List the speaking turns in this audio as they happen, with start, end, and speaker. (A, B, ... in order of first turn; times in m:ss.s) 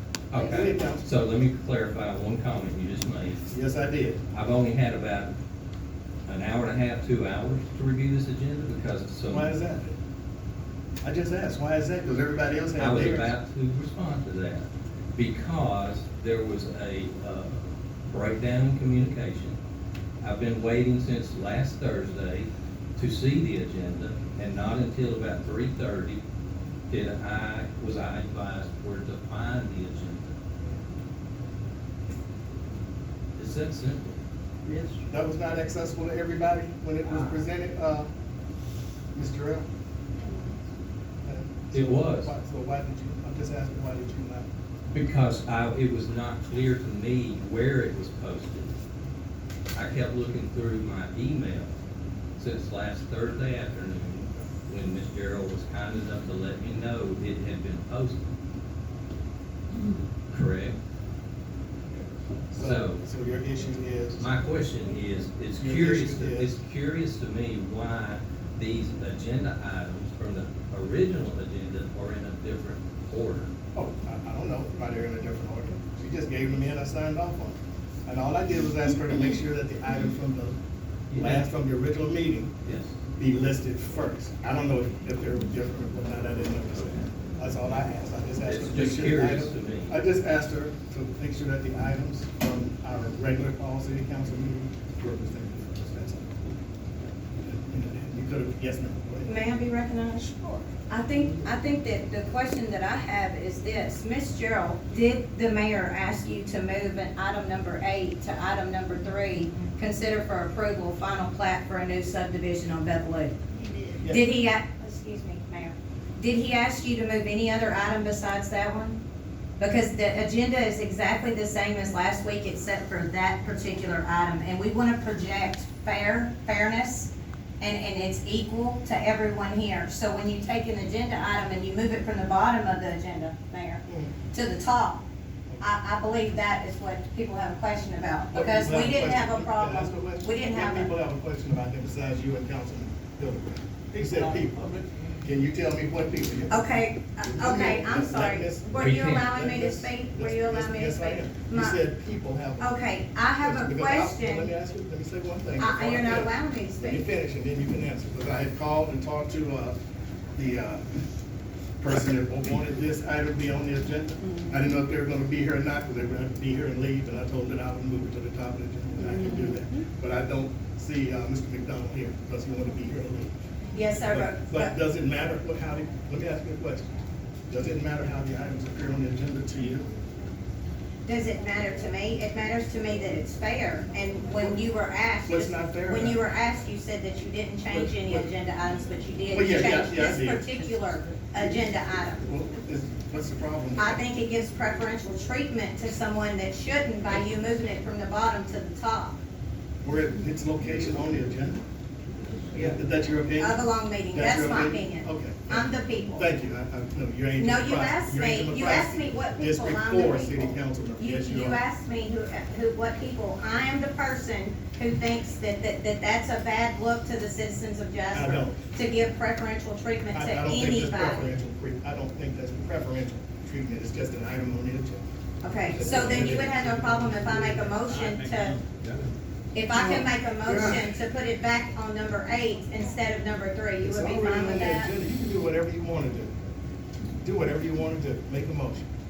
0:00.3-0:03.5 A
0:00.4-0:01.1 B
0:00.4-0:00.6 C
0:03.5-0:04.2 B
0:04.3-0:05.3 A
0:06.2-0:09.5 A
0:09.3-0:10.0 B
0:11.0-0:13.3 B
0:12.8-0:19.6 A
0:20.2-0:26.2 A
0:26.9-0:30.4 A
0:33.4-0:34.2 A
0:34.6-0:35.0 D
0:35.1-0:38.1 B
0:37.0-0:37.4 A
0:39.1-0:39.7 B
0:41.2-0:44.5 B
0:41.7-0:42.3 A
0:44.9-0:48.7 A
0:49.7-0:51.7 A
0:52.4-0:58.3 A
1:00.3-1:00.8 A
1:02.5-1:04.3 B
1:02.6-1:03.0 A
1:04.2-1:13.5 A
1:05.6-1:06.5 B
1:13.8-1:20.6 B
1:21.1-1:21.4 A
1:21.1-1:22.5 B
1:22.6-1:22.9 A
1:23.2-1:36.5 B
1:28.4-1:30.0 A
1:37.4-1:39.4 B
1:39.3-1:53.4 C
1:53.9-1:59.0 C
1:59.6-2:15.0 C
2:13.9-2:14.1 B
2:15.6-2:20.9 C
2:18.3-2:26.7 B
2:24.2-2:25.0 D
2:26.5-2:31.8 C
2:27.2-2:32.7 B
2:28.8-2:29.3 A
2:32.6-2:34.5 C
2:33.4-2:39.8 B
2:35.6-2:37.0 C
2:40.3-2:40.8 B
2:41.8-2:53.3 B
2:44.2-2:44.5 C
2:49.0-2:49.8 C
2:53.7-2:54.7 C
2:54.1-2:56.9 B
2:57.5-2:59.8 B
3:01.0-3:12.3 C
3:05.2-3:06.2 B
3:07.7-3:08.3 B
3:09.3-3:10.5 B
3:11.3-3:14.0 B
3:13.8-3:19.2 C
3:19.8-3:21.6 B
3:22.5-3:31.6 B
3:23.4-3:26.3 C
3:27.4-3:41.3 C
3:38.1-3:38.6 B
3:40.1-3:45.0 B
3:45.4-3:48.6 C
3:45.7-3:47.6 B
3:47.8-3:49.1 D
3:49.5-3:54.9 C
3:49.7-3:50.9 B
3:53.8-3:56.3 B
3:57.2-3:58.9 B